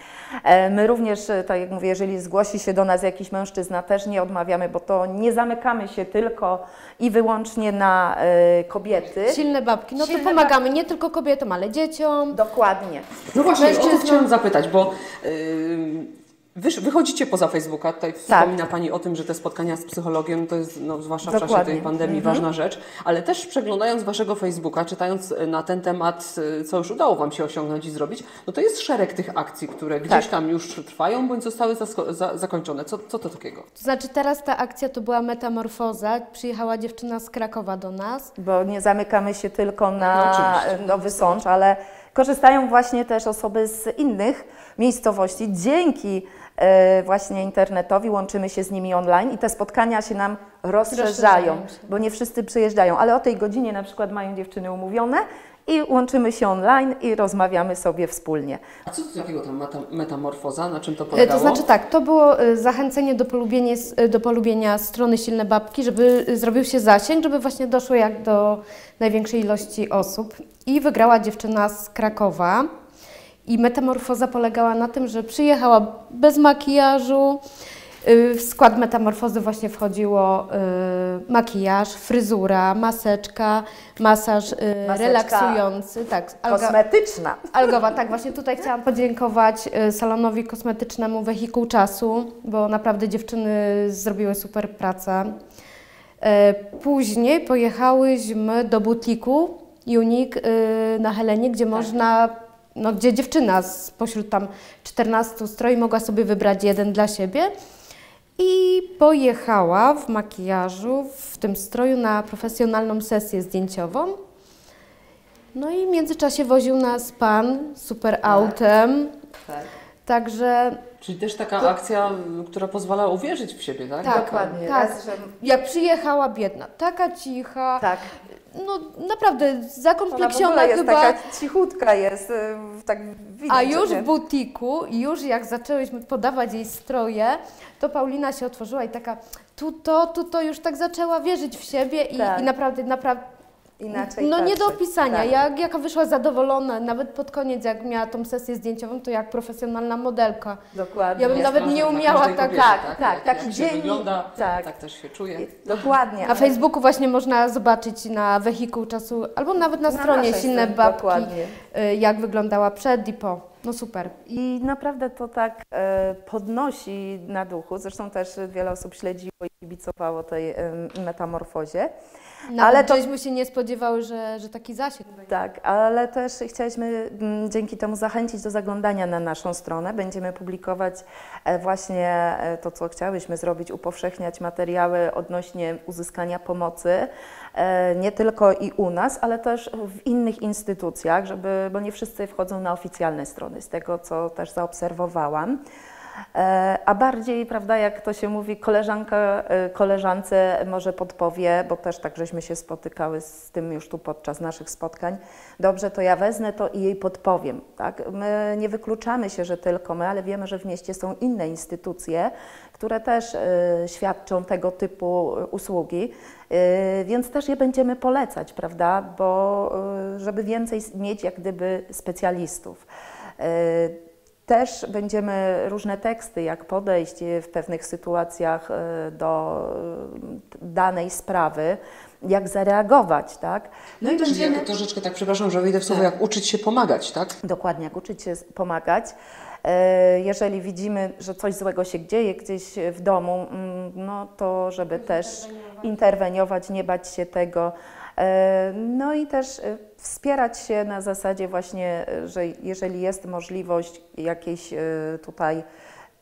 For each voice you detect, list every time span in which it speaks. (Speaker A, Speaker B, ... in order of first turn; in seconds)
Speaker A: 0.4-9.4, 10.0-10.6, 12.3-13.1, 18.3-18.5, 21.2-22.4, 38.4-58.6, 84.8-85.6, 86.4-87.7, 118.2-118.5, 119.4-119.7, 124.0-125.3, 127.8-128.1, 130.1-134.1, 142.1-142.5, 143.8-145.4, 150.7-154.7, 155.3-156.5, 159.9-161.6, 164.2-171.9, 172.6-173.0, 175.3-195.6, 196.3-222.9, 223.4-223.9, 224.5-234.7, 237.4-255.6
Speaker B: 9.2-12.4, 13.6-14.3, 33.7-38.3, 50.9-51.9, 61.1-72.7, 73.5-77.4, 78.0-86.8, 87.5-95.3, 96.2-107.5, 108.4-114.2, 115.5-119.1, 120.0-120.8, 124.0-127.8, 128.5-131.2, 133.5-143.3, 143.9-150.6, 151.2-152.8, 156.2-164.1, 172.5-175.3, 244.9-246.0
Speaker C: 13.3-33.6, 40.0-41.3, 58.9-61.7, 121.0-124.3, 151.3-155.7, 234.2-237.3